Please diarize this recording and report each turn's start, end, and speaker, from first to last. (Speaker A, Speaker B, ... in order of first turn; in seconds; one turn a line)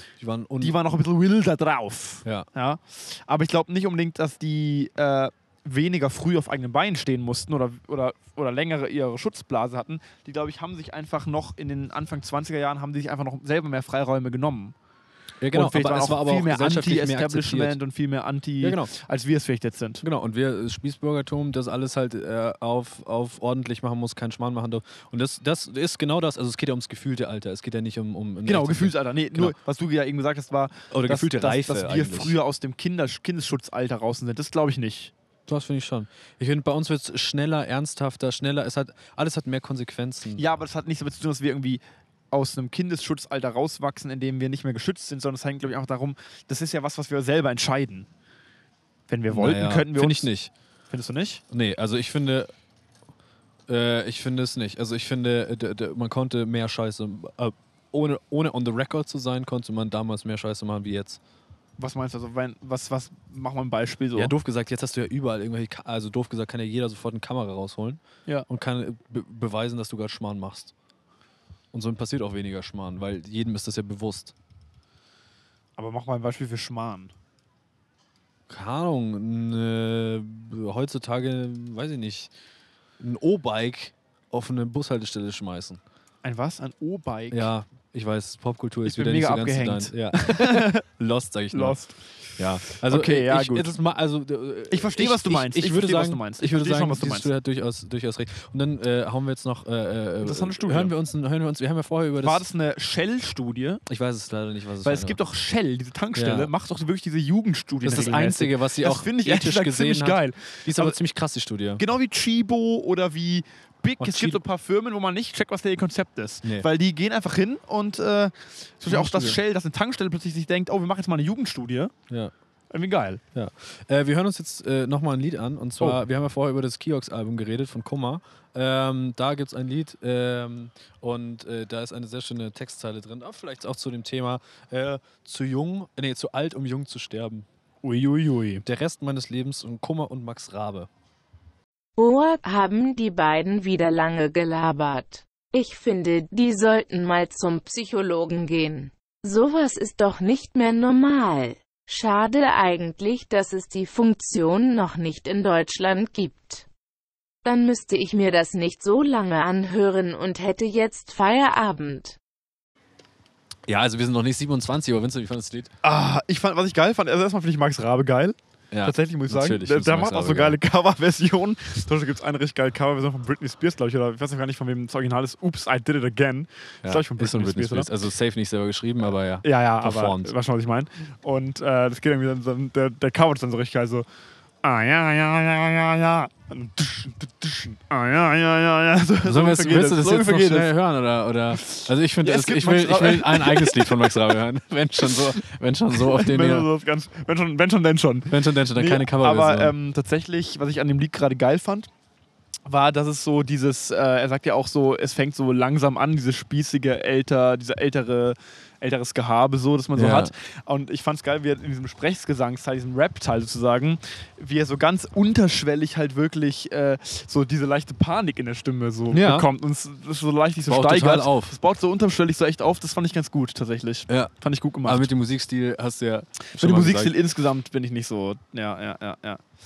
Speaker A: 0.2-0.8
Speaker B: 0.6-14.7
Speaker A: 15.4-17.8
Speaker B: 15.5-20.0
Speaker A: 18.6-18.9
Speaker A: 20.0-29.6
Speaker B: 28.4-35.1
Speaker A: 30.9-32.4
Speaker A: 35.5-40.4
Speaker B: 40.4-48.1
Speaker B: 49.1-50.3
Speaker A: 49.3-50.5
Speaker B: 50.9-51.4
Speaker A: 51.5-52.5
Speaker A: 53.7-61.2
Speaker B: 61.8-64.3
Speaker A: 64.1-70.7
Speaker A: 71.7-74.3
Speaker B: 75.8-77.1
Speaker A: 78.5-82.3
Speaker A: 83.0-85.8
Speaker B: 86.2-87.5
Speaker A: 87.3-91.8
Speaker B: 88.8-90.8
Speaker B: 91.5-93.7
Speaker A: 92.4-102.4
Speaker B: 94.7-97.3
Speaker B: 100.2-100.9
Speaker B: 102.2-103.8
Speaker A: 103.9-105.2
Speaker B: 104.8-111.0
Speaker A: 106.2-106.5
Speaker A: 107.8-111.8
Speaker B: 111.8-121.9
Speaker A: 114.0-114.4
Speaker A: 118.9-119.4
Speaker B: 122.7-123.2
Speaker A: 123.3-137.4
Speaker B: 137.8-138.6
Speaker A: 138.6-140.9
Speaker C: 142.0-156.7
Speaker C: 157.4-162.2
Speaker A: 163.7-165.7
Speaker B: 165.8-177.9
Speaker A: 168.7-170.6
Speaker A: 176.8-180.3
Speaker B: 179.4-184.1
Speaker B: 184.6-190.7
Speaker A: 189.3-196.7
Speaker B: 191.7-194.3
Speaker B: 195.0-195.4
Speaker B: 195.9-201.9
Speaker A: 198.3-199.7
Speaker B: 202.7-225.1
Speaker A: 209.9-210.3
Speaker A: 219.1-219.5
Speaker A: 220.7-221.6
Speaker A: 224.8-227.1
Speaker B: 226.5-229.4